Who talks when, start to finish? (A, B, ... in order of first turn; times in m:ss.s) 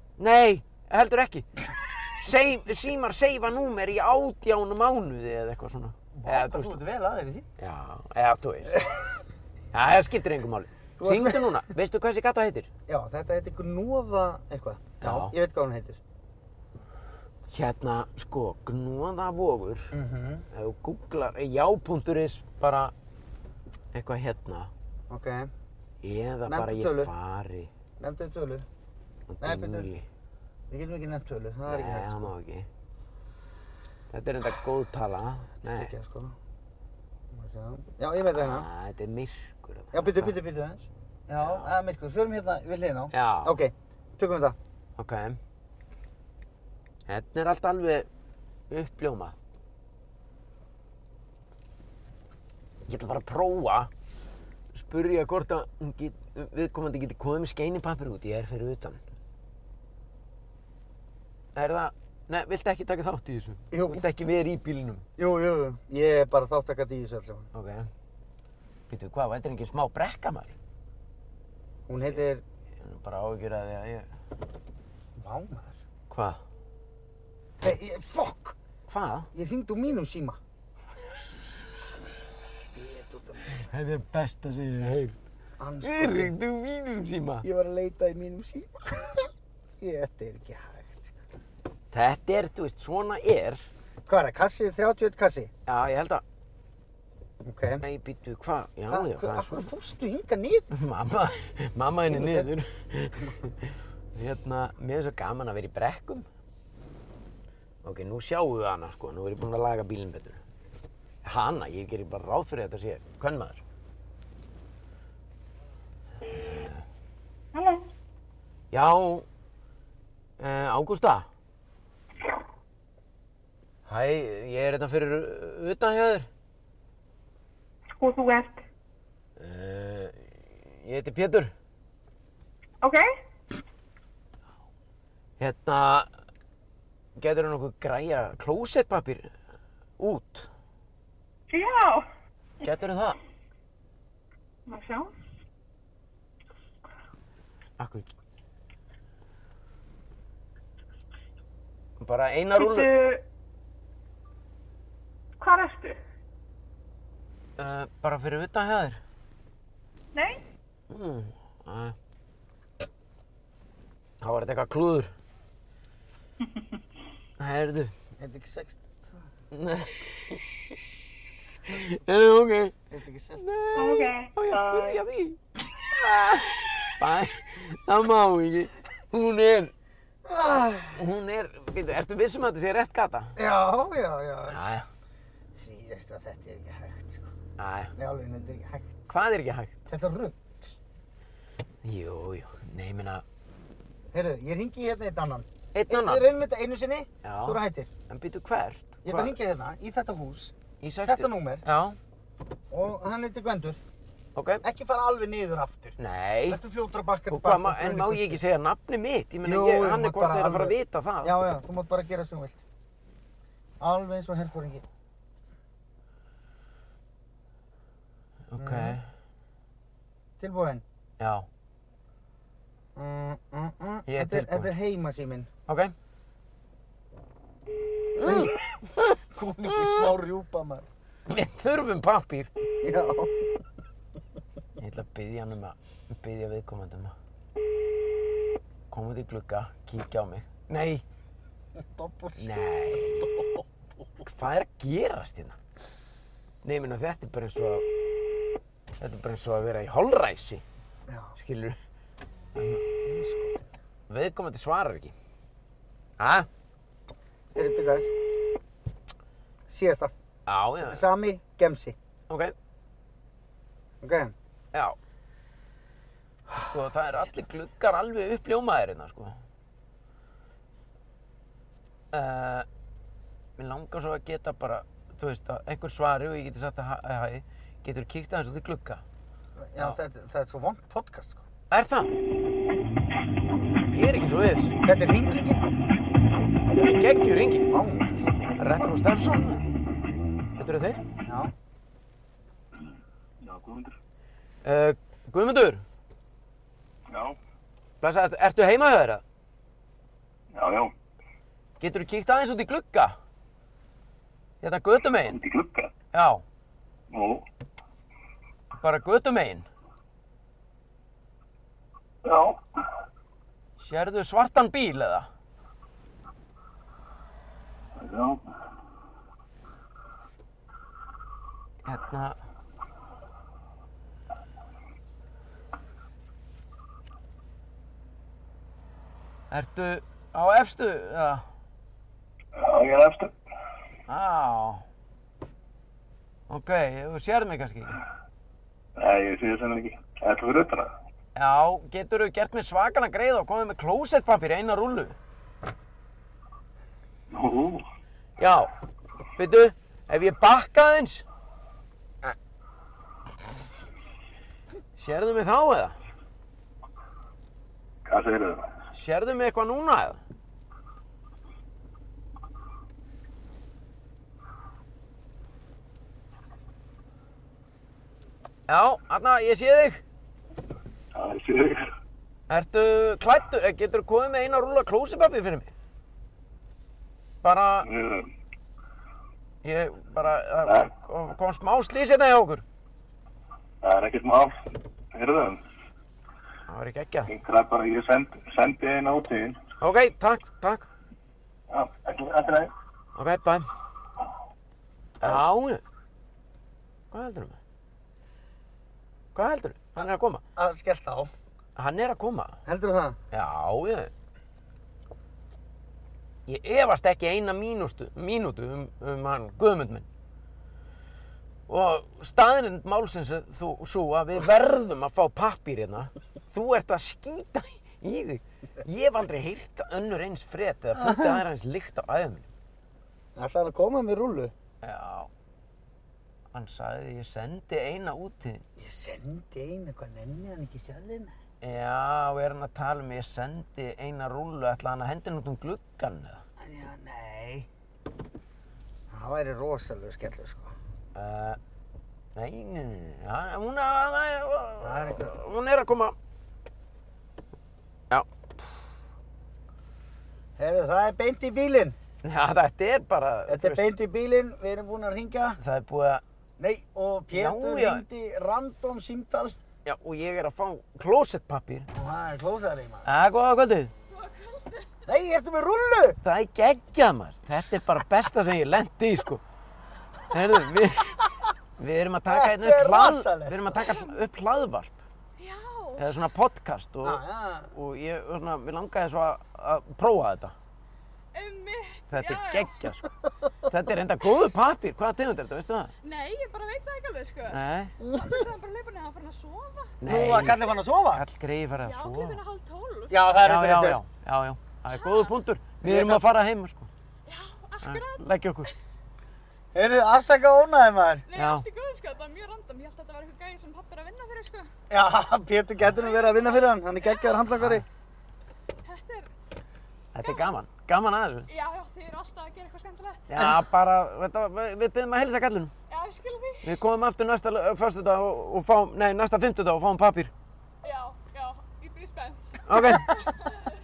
0:00.2-0:01.5 A
0:02.2-0:06.8 A
0:06.1-0:07.5 B
0:07.6-0:08.8 A
0:08.7-0:09.1 B
0:09.7-0:12.7 A
0:11.0-0:11.6 B
0:12.9-0:16.0 B
0:15.0-0:15.3 A
0:17.5-0:19.9 A
0:19.9-0:20.5 B
0:20.5-0:22.9 A
0:23.9-0:24.7 A
0:25.1-0:25.5 B
0:26.0-0:27.7 A
0:26.4-0:27.1 B
0:28.0-0:28.6 B
0:29.3-0:30.0 A
0:29.4-0:29.9 B
0:30.7-0:32.3 B
0:31.7-0:32.7 A
0:34.1-0:35.9 A
0:35.6-0:36.4 B
0:37.3-0:38.7 B
0:38.3-0:40.4 A
0:39.9-0:44.6 B
0:41.4-0:41.7 A
0:43.1-0:43.6 A
0:45.0-0:45.4 A
0:47.1-0:48.1 A
0:48.7-0:49.3 A
0:52.9-0:53.9 A
0:54.7-0:59.0 A
1:01.5-1:05.0 A
1:03.7-1:04.0 B
1:05.2-1:07.5 B
1:07.5-1:07.9 A
1:08.9-1:10.5 A
1:11.9-1:12.4 B
1:12.8-1:14.1 A
1:15.2-1:15.8 B
1:16.1-1:16.4 A
1:17.6-1:18.6 B
1:18.9-1:19.3 A
1:19.3-1:20.4 B
1:22.7-1:23.6 B
1:23.5-1:25.2 A
1:25.6-1:26.3 B
1:25.8-1:27.4 A
1:27.4-1:31.2 B
1:31.9-1:33.7 A
1:34.0-1:35.6 B
1:35.7-1:36.2 A
1:37.4-1:37.8 B
1:37.8-1:39.7 A
1:38.9-1:40.7 B
1:40.7-1:46.3 A
1:42.1-1:42.5 B
1:47.8-1:50.4 A
1:51.2-1:53.6 A
1:56.3-1:56.8 A
1:57.5-1:57.8 C
1:58.7-1:59.2 A
2:00.4-2:01.3 A
2:03.9-2:06.3 A
2:07.9-2:08.6 C
2:09.4-2:11.5 A
2:15.4-2:16.1 A
2:17.2-2:19.3 A
2:20.0-2:20.5 A
2:21.5-2:22.0 C
2:22.6-2:23.2 A
2:24.7-2:25.1 C
2:27.8-2:28.1 A
2:32.0-2:32.9 A
2:32.6-2:33.2 C
2:35.4-2:36.0 C
2:37.6-2:39.0 A
2:40.9-2:42.0 A
2:44.2-2:45.1 A
2:47.4-2:47.9 A
2:48.2-2:49.2 B
2:49.5-2:50.6 A
2:51.6-2:51.9 B
2:51.7-2:52.8 A
2:52.9-2:54.0 B
2:53.4-2:55.4 A
2:53.8-2:55.0 C
2:55.9-2:59.7 A
3:00.2-3:01.0 B
3:00.9-3:03.3 A
3:03.4-3:04.6 B
3:04.5-3:04.9 A
3:05.5-3:07.3 B
3:07.6-3:07.9 A
3:07.9-3:09.0 B
3:09.1-3:09.8 A
3:09.9-3:10.4 B
3:11.8-3:13.2 A
3:14.1-3:17.9 B
3:15.7-3:16.3 A
3:17.2-3:19.4 A
3:19.0-3:20.5 B
3:20.8-3:22.0 A
3:21.0-3:21.6 B
3:22.7-3:23.8 B
3:24.4-3:24.6 A
3:24.6-3:26.0 B
3:26.0-3:26.6 A
3:26.5-3:28.4 B
3:27.3-3:31.4 A
3:29.4-3:32.6 B
3:33.8-3:34.8 B
3:38.5-3:39.1 A
3:38.6-3:39.0 B
3:40.4-3:40.8 B
3:41.2-3:41.5 A
3:43.0-3:45.5 B
3:44.1-3:44.7 A
3:45.7-3:45.9 A
3:48.2-3:50.0 A
3:48.2-3:48.6 B
3:49.3-3:50.9 B
3:51.3-3:52.5 A
3:52.8-3:53.5 B
3:54.8-3:57.1 A
3:58.9-4:01.0 A
4:01.7-4:03.6 B
4:02.4-4:03.3 A
4:04.2-4:05.6 A
4:06.6-4:07.8 A
4:09.0-4:10.6 A
4:11.1-4:11.4 B
4:11.4-4:11.8 A
4:12.6-4:12.8 A
4:13.0-4:13.7 B
4:14.1-4:15.1 A
4:16.2-4:16.5 A
4:17.5-4:18.1 B
4:19.7-4:20.1 B
4:20.5-4:21.0 A
4:20.8-4:22.0 B
4:22.3-4:22.5 A
4:24.0-4:24.3 B
4:26.6-4:29.4 A
4:32.1-4:32.7 A
4:33.6-4:39.0 A
4:39.6-4:41.4 B
4:41.7-4:42.1 A
4:43.9-4:44.8 A
4:44.8-4:45.6 B
4:46.7-4:47.7 A
4:47.7-4:48.2 B
4:48.6-4:49.6 A
4:50.6-4:51.0 A
4:51.2-4:51.5 B
4:53.4-4:53.9 D
4:54.6-4:55.8 A
4:57.1-4:57.4 D
4:58.0-4:59.2 A
5:00.5-5:00.9 D
5:01.8-5:03.2 A
5:04.6-5:05.4 A
5:05.2-5:05.9 D
5:06.1-5:06.4 A
5:07.1-5:07.4 D
5:08.8-5:09.7 A
5:12.2-5:12.6 D
5:13.8-5:15.3 A
5:18.0-5:18.4 D
5:21.8-5:22.4 A
5:29.5-5:31.4 A
5:32.6-5:33.3 D
5:34.1-5:34.8 A
5:36.5-5:38.0 A
5:39.0-5:40.9 D
5:41.4-5:45.2 A
5:47.3-5:47.8 D
5:48.4-5:48.7 A
5:49.4-5:51.2 A
5:55.0-5:56.0 A
5:58.0-5:58.7 D
5:58.9-6:00.2 A
6:08.7-6:10.0 A
6:11.1-6:11.9 D
6:12.5-6:15.7 A
6:17.4-6:17.9 A
6:17.8-6:18.3 D
6:19.6-6:22.6 A
6:20.6-6:20.9 D
6:23.8-6:24.5 D
6:25.1-6:25.6 D
6:26.7-6:27.3 A
6:27.3-6:29.6 D
6:29.8-6:30.9 A
6:31.7-6:32.7 D
6:33.2-6:33.7 A
6:35.2-6:35.8 A
6:37.1-6:37.6 A
6:39.3-6:40.4 A
6:40.6-6:41.3 B
6:41.8-6:42.6 A
6:42.6-6:43.2 B
6:43.3-6:44.1 A
6:46.5-6:50.0 A
6:51.7-7:02.5 A
7:01.0-7:01.4 B
7:03.4-7:04.5 B
7:04.8-7:05.3 A
7:06.5-7:08.6 A
7:08.8-7:11.4 B
7:11.6-7:16.4 A
7:16.6-7:17.7 B
7:19.1-7:20.7 B
7:21.1-7:21.6 A
7:22.3-7:26.1 A
7:24.8-7:25.4 B
7:30.6-7:32.0 B
7:32.2-7:33.9 A
7:33.5-7:35.6 B
7:35.6-7:36.2 A
7:36.6-7:39.6 B
7:37.3-7:38.0 A
7:39.8-7:41.9 A
7:41.9-7:43.1 B
7:43.0-7:43.9 A
7:44.1-7:44.8 E
7:45.0-7:46.2 B
7:46.2-7:49.4 A
7:50.3-7:51.2 A
7:51.8-7:55.0 A
7:52.3-7:53.9 B
7:55.4-7:56.0 E
7:56.0-8:00.5 A
7:57.0-7:57.7 B
8:01.3-8:02.6 E
8:02.1-8:03.1 A
8:03.6-8:05.9 A
8:06.1-8:07.5 E
8:07.5-8:07.9 A
8:08.0-8:08.4 B
8:08.7-8:09.8 E
8:10.0-8:12.4 A
8:10.0-8:11.2 B
8:11.8-8:13.1 E
8:13.1-8:14.0 B
8:13.4-8:16.9 A
8:15.8-8:16.3 B
8:17.3-8:18.2 E
8:17.8-8:18.7 A
8:19.7-8:21.2 B
8:21.3-8:21.6 A
8:21.3-8:24.6 E
8:24.9-8:27.8 B
8:27.6-8:27.8 A
8:28.9-8:29.3 E
8:30.1-8:31.5 A
8:31.5-8:33.2 E
8:33.3-8:35.7 A
8:35.9-8:36.6 E
8:36.6-8:40.3 A
8:40.8-8:43.2 E
8:42.7-8:43.2 A